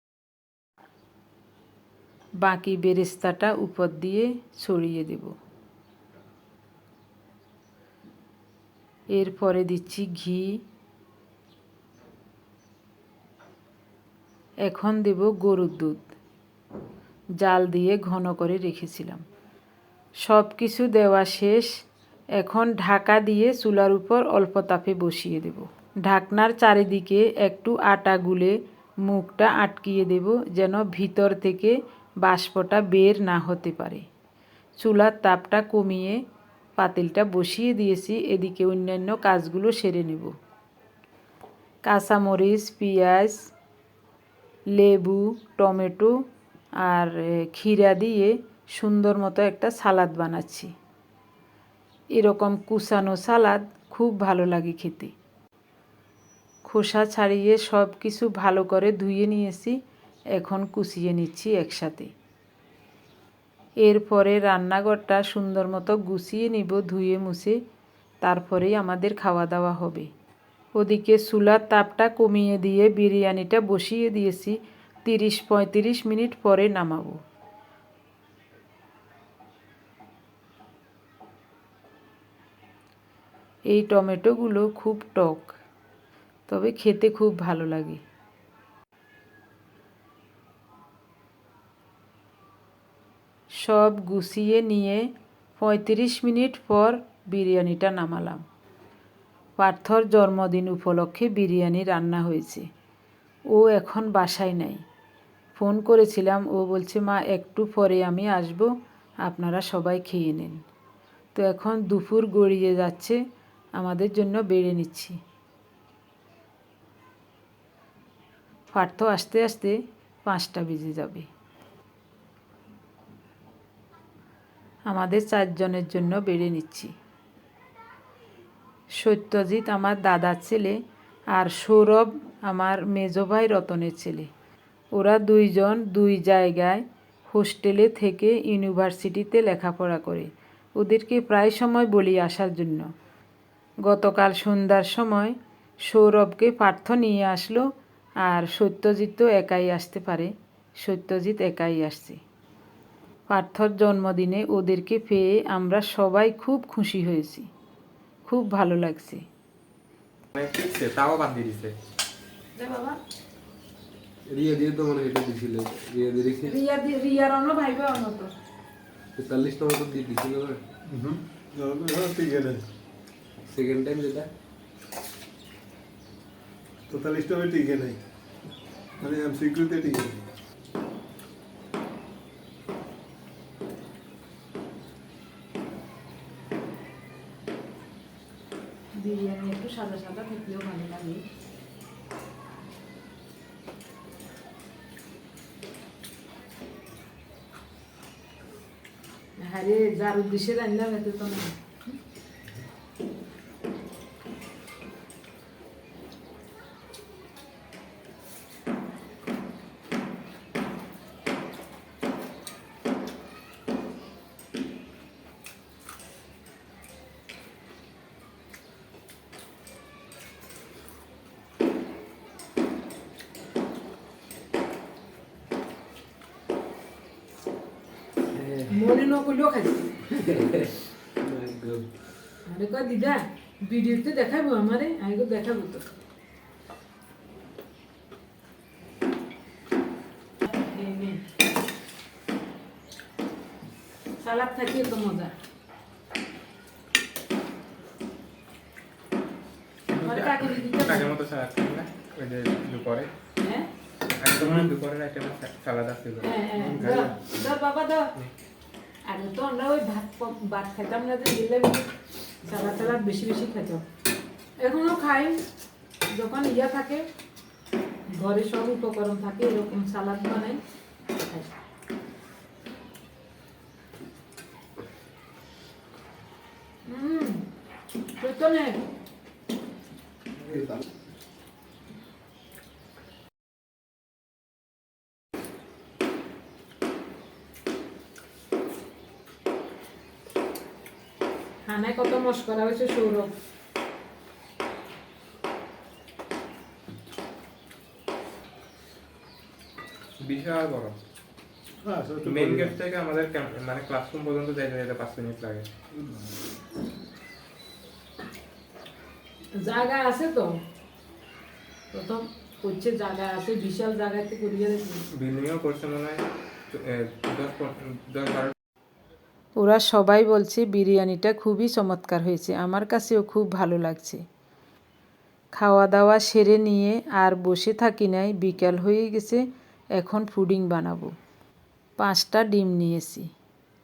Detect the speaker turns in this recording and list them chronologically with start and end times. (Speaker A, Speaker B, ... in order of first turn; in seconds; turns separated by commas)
Speaker A: 2.4-5.3, Speaker A: 9.1-10.6, Speaker A: 14.6-16.1, Speaker A: 17.4-19.2, Speaker A: 20.2-21.7, Speaker A: 22.4-34.0, Speaker A: 34.8-36.2, Speaker A: 36.8-40.3, Speaker A: 41.9-43.4, Speaker A: 44.7-46.1, Speaker A: 46.8-50.7, Speaker A: 52.1-55.1, Speaker A: 56.6-59.8, Speaker A: 60.3-62.1, Speaker A: 63.8-67.6, Speaker A: 68.2-70.1, Speaker A: 70.8-77.2, Speaker A: 83.7-85.6, Speaker A: 86.5-88.0, Speaker A: 93.6-95.1, Speaker A: 95.6-98.4, Speaker A: 99.6-102.7, Speaker A: 103.5-104.8, Speaker A: 105.5-108.7, Speaker A: 109.2-110.6, Speaker A: 111.3-113.2, Speaker A: 113.8-115.2, Speaker A: 118.7-121.3, Speaker A: 124.9-126.9, Speaker A: 128.9-130.8, Speaker A: 131.3-134.3, Speaker A: 134.9-142.9, Speaker A: 143.8-145.4, Speaker A: 145.9-147.6, Speaker A: 148.2-152.2, Speaker A: 153.3-157.5, Speaker A: 158.3-159.2, Speaker B: 160.3-161.8, Speaker A: 162.6-163.0, Speaker C: 164.3-166.6, Speaker A: 166.5-168.3, Speaker C: 169.2-170.6, Speaker D: 170.9-172.6, Speaker C: 173.5-174.3, Speaker D: 176.9-178.0, Speaker D: 179.0-180.2, Speaker A: 189.0-191.2, Speaker A: 199.4-201.6, Speaker C: 228.3-228.8, Speaker A: 228.7-229.9, Speaker C: 230.1-231.9, Speaker A: 232.5-235.8, Speaker A: 240.5-241.2, Speaker A: 244.2-245.3, Speaker B: 249.9-253.1, Speaker A: 250.0-251.1, Speaker A: 253.4-253.7, Speaker B: 254.2-257.4, Speaker A: 256.2-258.1, Speaker A: 259.1-261.9, Speaker A: 262.4-263.8, Speaker A: 264.6-265.4, Speaker A: 266.1-267.1, Speaker A: 268.1-270.6, Speaker A: 271.2-271.5, Speaker A: 276.9-277.4, Speaker A: 278.2-278.8, Speaker C: 280.4-280.9, Speaker A: 291.7-293.3, Speaker B: 300.2-301.0, Speaker D: 301.8-302.8, Speaker B: 302.2-305.7, Speaker A: 309.6-310.5, Speaker A: 311.9-315.0, Speaker B: 315.1-318.5, Speaker A: 319.6-324.2, Speaker A: 325.6-329.4, Speaker A: 330.0-331.1, Speaker A: 332.0-333.3